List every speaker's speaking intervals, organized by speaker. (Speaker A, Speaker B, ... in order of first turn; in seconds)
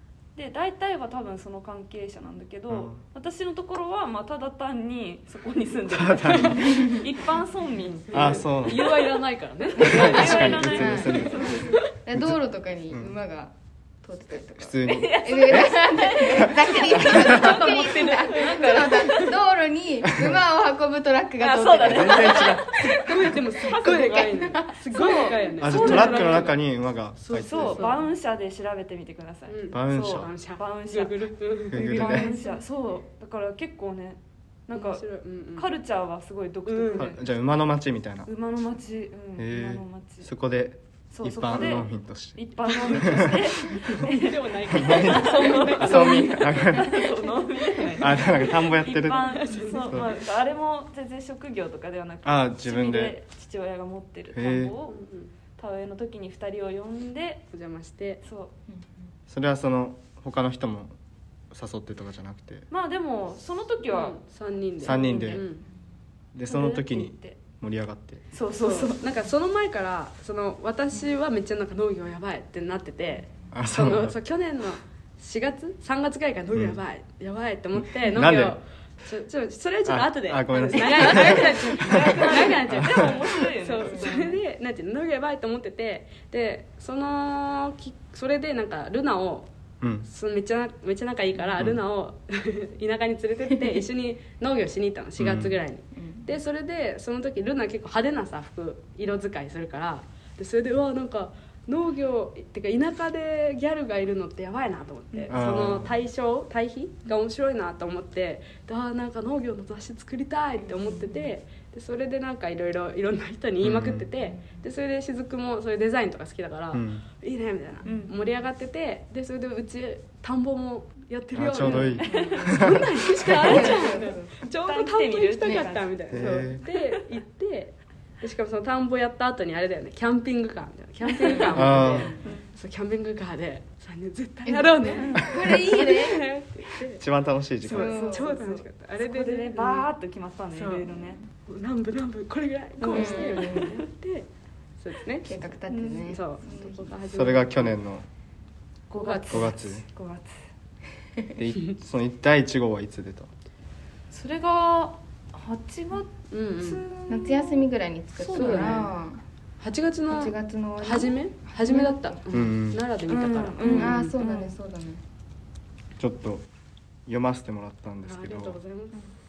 Speaker A: 0.3-9.1, 9.8-11.8, 14.8-19.3, 21.4-26.5, 27.3-34.2, 34.7-35.0, 35.6-37.2, 38.2-40.3, 41.1-55.0, 55.6-57.4, 58.2-58.5, 62.7-64.2, 64.8-65.4, 66.5-67.4, 68.3-69.0, 81.0-84.4, 117.8-118.2, 121.6-125.9, 126.6-127.0, 131.2-132.5, 134.9-135.3, 137.7-141.2, 142.8-143.8, 145.7-146.6, 148.9-150.3, 154.1-158.9, 163.1-164.6
Speaker B: 2.7-3.0, 5.9-6.7, 8.1-8.9, 9.8-11.6, 12.9-13.2, 14.6-17.6, 21.8-22.9, 25.6-27.9, 29.7-30.3, 31.7-32.3, 37.0-38.3, 39.4-44.0, 44.7-47.0, 48.0-50.1, 52.2-53.2, 54.3-54.7, 59.3-60.9, 61.5-62.7, 64.8-65.4, 66.3-68.2, 73.5-74.2, 76.5-76.8, 77.8-78.6, 79.8-83.2, 89.8-90.1, 95.2-95.6, 105.3-105.9, 113.6-114.1, 116.7-117.0, 121.3-123.7, 126.1-126.6, 131.5-132.1, 137.0-137.9, 147.1-148.1, 149.3-149.8, 151.3-153.3, 162.3-162.8, 166.0-166.5, 167.1-168.6
Speaker C: 6.2-7.1, 7.9-11.0, 17.3-19.2, 23.0-26.6, 27.2-28.1, 29.5-32.6, 34.7-35.7, 36.7-37.1, 43.9-46.6, 47.9-48.4, 49.2-50.1, 54.9-55.3, 57.5-58.2, 63.9-65.7, 68.6-89.5, 90.0-137.0, 137.6-139.9, 140.5-140.9, 141.5-144.3, 144.8-147.8, 149.0-149.5, 156.3-156.8, 158.3-158.9, 159.6-164.2, 168.0-169.0
Speaker D: 6.6-7.1, 9.8-25.3, 83.8-84.2, 95.9-96.3, 110.6-111.3, 114.2-114.6, 123.3-124.4, 126.2-126.5, 131.3-132.3, 134.4-136.2, 137.7-138.2, 142.8-143.7, 145.2-146.9, 157.1-159.2, 160.1-162.2, 163.6-165.0